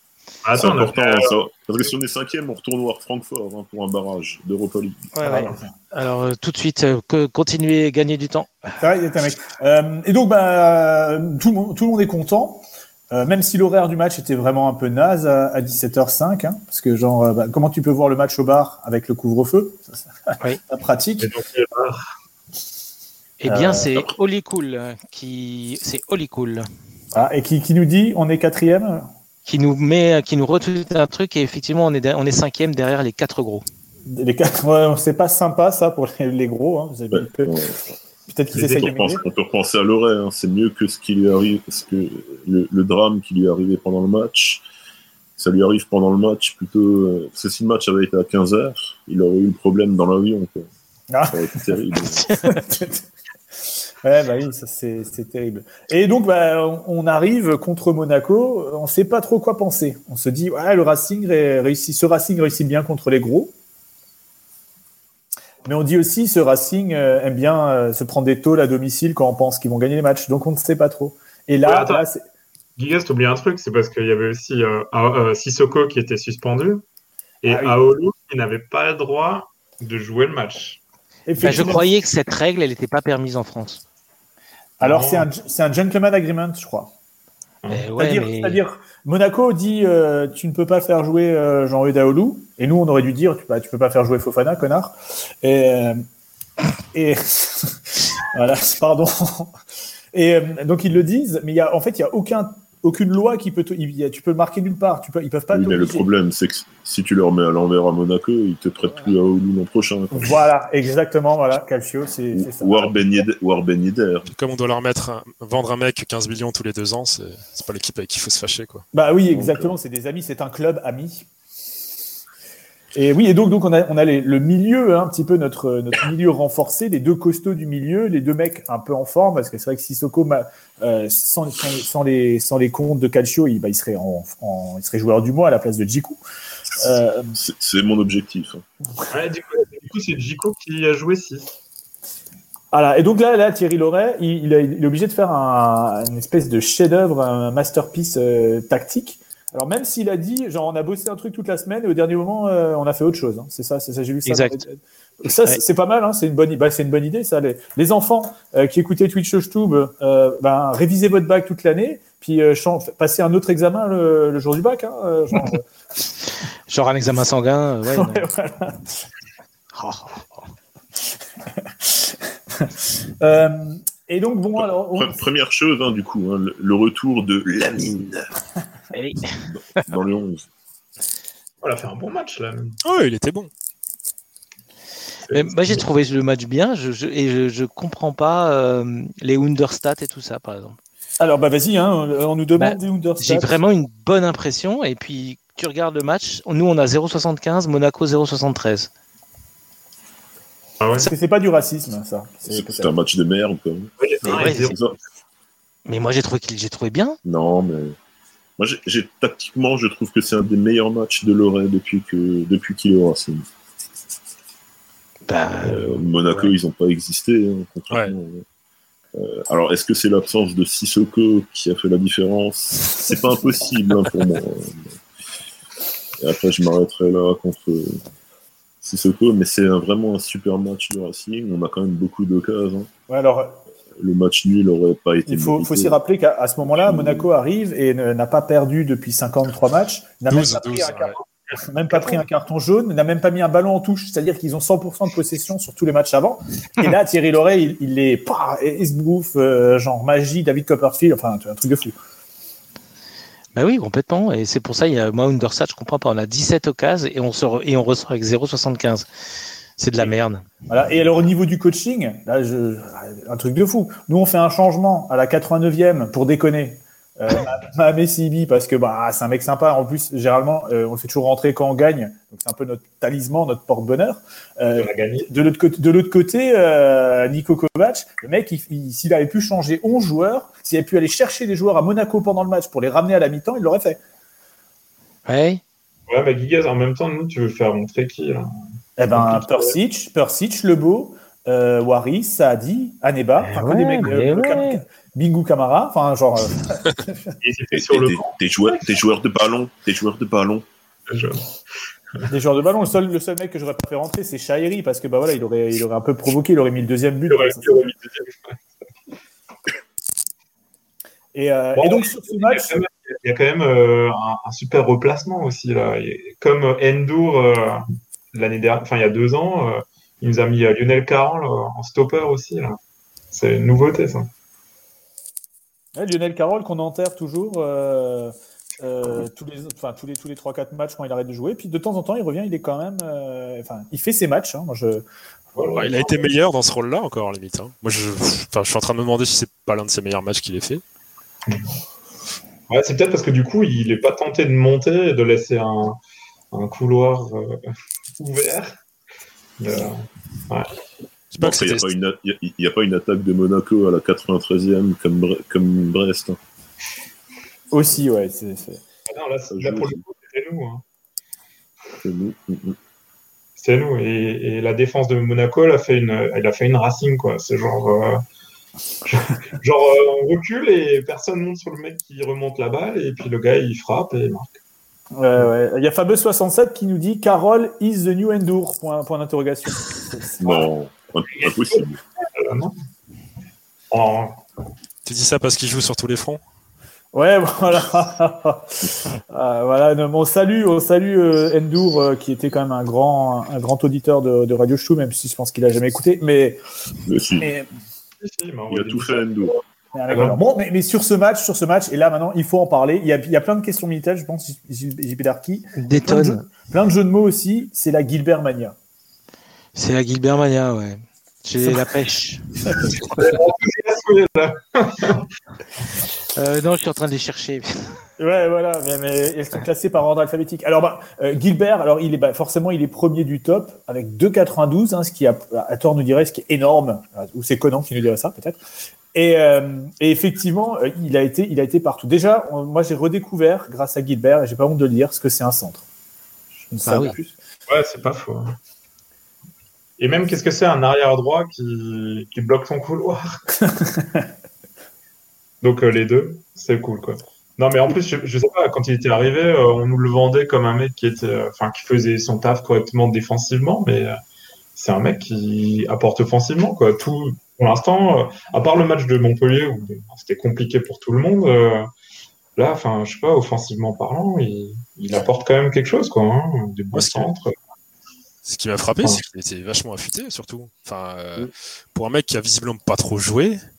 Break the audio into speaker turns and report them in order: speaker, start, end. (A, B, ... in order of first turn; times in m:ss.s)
0:00.4-0:01.4 A
0:00.6-0:05.1 B
0:05.1-0:08.7 C
0:05.2-0:05.7 D
0:08.8-0:19.9 D
0:20.7-0:21.3 D
0:21.2-0:22.0 A
0:23.4-0:26.7 C
0:23.5-0:23.9 D
0:27.1-0:29.1 D
0:29.5-0:33.6 C
0:34.1-0:37.6 D
0:37.1-0:37.9 B
0:38.3-0:39.2 D
0:38.5-0:38.9 A
0:38.6-0:44.6 B
0:45.4-0:50.7 B
0:51.1-0:51.8 D
0:51.3-0:52.5 B
0:52.4-0:53.0 D
0:54.0-1:03.5 D
1:05.6-1:12.2 D
1:11.6-1:12.0 A
1:12.8-1:16.8 A
1:17.4-1:20.8 A
1:17.5-1:17.8 D
1:21.3-1:21.9 D
1:21.4-1:23.8 C
1:24.8-1:26.9 D
1:24.8-1:25.3 A
1:27.6-1:27.9 A
1:27.7-1:28.6 C
1:28.0-1:36.0 D
1:36.9-1:39.5 D
1:40.1-1:46.1 D
1:45.5-1:50.4 B
1:50.1-1:53.2 D
1:52.3-1:54.3 B
1:54.3-1:58.8 E
1:58.9-2:01.3 D
1:59.3-1:59.8 B
2:02.9-2:16.2 D
2:16.8-2:17.4 D
2:17.4-2:18.6 B
2:19.1-2:21.5 A
2:22.7-2:45.6 D
2:34.3-2:34.6 C
2:46.7-2:48.3 C
2:47.9-2:49.0 D
2:49.8-2:50.5 C
2:51.6-2:55.2 D
2:54.6-2:58.3 B
2:58.9-2:59.8 C
2:59.5-3:00.5 B
3:01.6-3:02.8 A
3:02.8-3:03.5 E
3:05.3-3:05.8 A
3:05.3-3:10.8 C
3:11.2-3:13.5 D
3:12.6-3:18.9 C
3:20.8-3:21.1 A
3:21.0-3:22.9 D
3:22.5-3:25.0 B
3:24.0-3:24.8 A
3:24.2-3:24.7 C
3:25.9-3:27.2 C
3:27.2-3:28.0 B
3:28.6-3:33.5 B
3:35.3-3:36.5 C
3:35.6-3:38.4 B
3:39.2-3:45.0 B
3:46.2-3:48.0 B
3:48.8-3:52.9 B
3:53.1-3:53.6 D
3:54.0-3:56.0 B
3:55.3-4:12.0 D
3:56.7-3:57.3 B
4:00.3-4:01.1 E
4:13.6-4:19.1 C
4:19.8-4:20.4 C
4:20.7-4:44.0 D
4:34.8-4:35.3 A
4:45.3-4:45.6 C
4:46.1-4:48.5 A
4:49.0-4:57.3 D
4:49.1-4:49.8 A
4:53.4-4:54.8 C
4:57.4-4:58.8 A
4:57.7-5:00.6 B
5:01.1-5:01.5 A
5:02.3-5:07.8 D
5:07.3-5:08.6 A
5:11.3-5:12.7 D
5:11.8-5:17.8 A
5:18.3-5:22.8 A
5:23.3-5:24.3 A
5:26.0-5:35.0 D
5:35.6-5:36.2 A
5:35.8-5:40.8 E
5:42.7-5:46.0 A
5:46.5-5:47.6 A
5:48.2-5:48.7 A
5:49.6-5:50.7 A
5:51.3-5:51.9 E
5:51.4-5:56.4 B
5:57.7-5:58.8 D
5:59.1-6:00.8 A
5:59.5-6:00.0 B
6:02.0-6:02.8 B
6:03.6-6:08.2 A
6:09.0-6:14.6 A
6:15.2-6:20.4 D
6:20.4-6:22.0 B
6:21.4-6:22.7 A
6:23.9-6:24.4 A
6:25.0-6:26.4 E
6:27.1-6:36.6 D
6:37.1-6:37.5 B
6:37.4-6:37.7 D
6:38.2-6:40.4 A
6:38.7-6:39.6 B
6:39.9-6:48.8 D
6:45.8-6:46.4 C
6:49.8-6:52.4 C
6:53.2-6:55.3 A
6:56.4-6:57.9 C
6:58.2-7:08.6 D
7:09.1-7:15.8 D
7:16.7-7:17.4 D
7:16.8-7:17.2 C
7:17.7-7:18.6 A
7:20.0-7:23.4 A
7:23.6-7:24.3 D
7:25.6-7:34.2 A
7:34.8-7:41.9 A
7:42.6-7:47.5 A
7:46.9-7:47.3 E
7:48.5-7:53.6 E